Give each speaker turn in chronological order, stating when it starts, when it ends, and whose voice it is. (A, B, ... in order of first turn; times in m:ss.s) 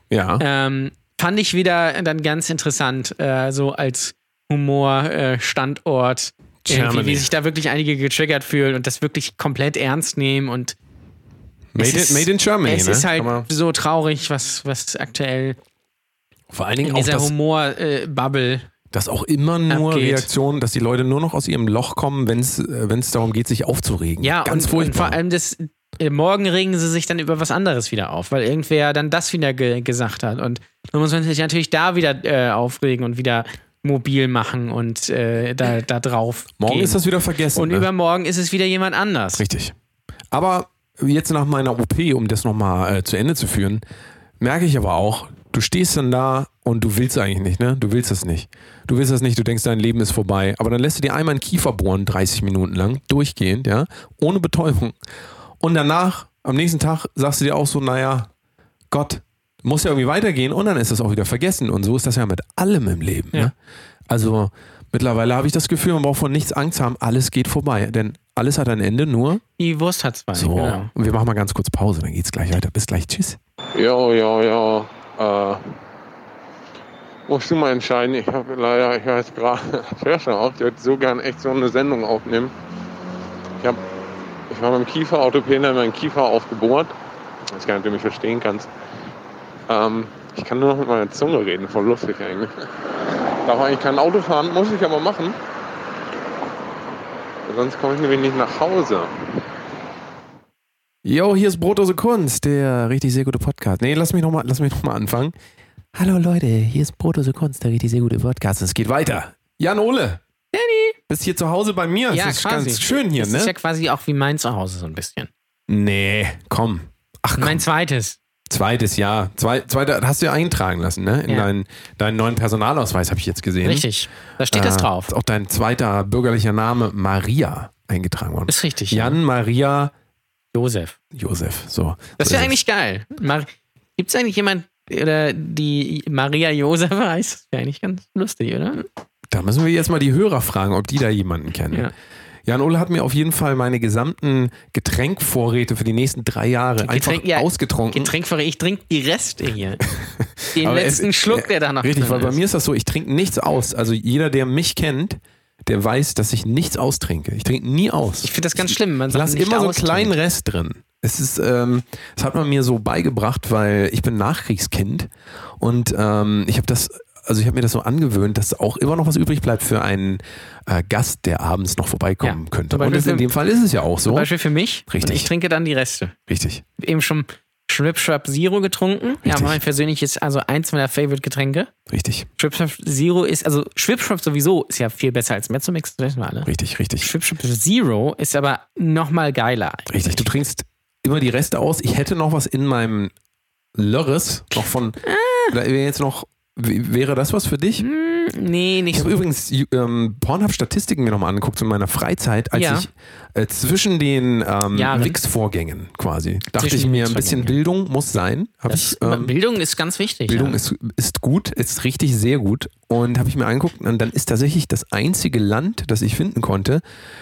0:00.1-0:00.4 A
0:00.4-0:10.8 B
0:06.6-0:07.3 A
0:11.7-0:13.5 A
0:11.8-0:15.6 B
0:16.5-0:17.3 A
0:16.8-0:18.7 B
0:18.9-0:25.2 A
0:19.7-0:20.3 B
0:24.2-0:37.0 B
0:36.6-0:37.9 A
0:37.5-0:39.4 B
0:39.4-0:39.8 A
0:40.3-0:43.8 A
0:44.4-0:55.0 A
0:55.6-0:58.3 A
0:58.9-1:03.5 A
1:04.1-1:09.4 A
1:09.6-1:10.9 B
1:10.3-1:13.4 A
1:13.8-1:15.6 C
1:17.3-1:22.5 C
1:24.5-1:26.9 C
1:27.5-1:28.7 C
1:29.7-1:32.6 C
1:33.4-1:35.4 C
1:37.5-1:39.2 C
1:41.0-1:45.3 A
1:45.9-1:50.2 A
1:50.5-1:51.0 B
1:51.1-1:53.5 A
1:52.1-1:55.3 B
1:55.7-1:57.6 A
1:57.4-1:58.2 B
1:58.5-2:03.9 A
2:03.6-2:05.1 B
2:04.5-2:09.9 A
2:08.5-2:09.2 B
2:10.5-2:11.0 B
2:11.1-2:12.5 A
2:12.2-2:18.9 B
2:19.3-2:21.9 A
2:22.5-2:28.1 A
2:26.8-2:29.8 B
2:29.9-2:45.1 A
2:30.5-2:32.4 B
2:38.2-2:40.1 B
2:45.6-2:54.3 A
2:52.2-2:53.3 B
2:54.0-2:56.1 B
2:54.9-2:55.3 A
2:56.3-2:56.6 A
2:56.8-3:01.7 B
2:59.2-2:59.6 A
3:01.9-3:02.3 A
3:02.4-3:06.5 B
3:06.4-3:07.1 A
3:07.0-3:10.3 B
3:09.9-3:13.1 A
3:13.8-3:17.8 A
3:14.6-3:15.5 B
3:17.8-3:19.2 B
3:18.9-3:29.3 A
3:22.5-3:22.8 B
3:24.7-3:25.2 B
3:26.6-3:27.6 B
3:28.7-3:30.6 B
3:30.3-3:36.8 A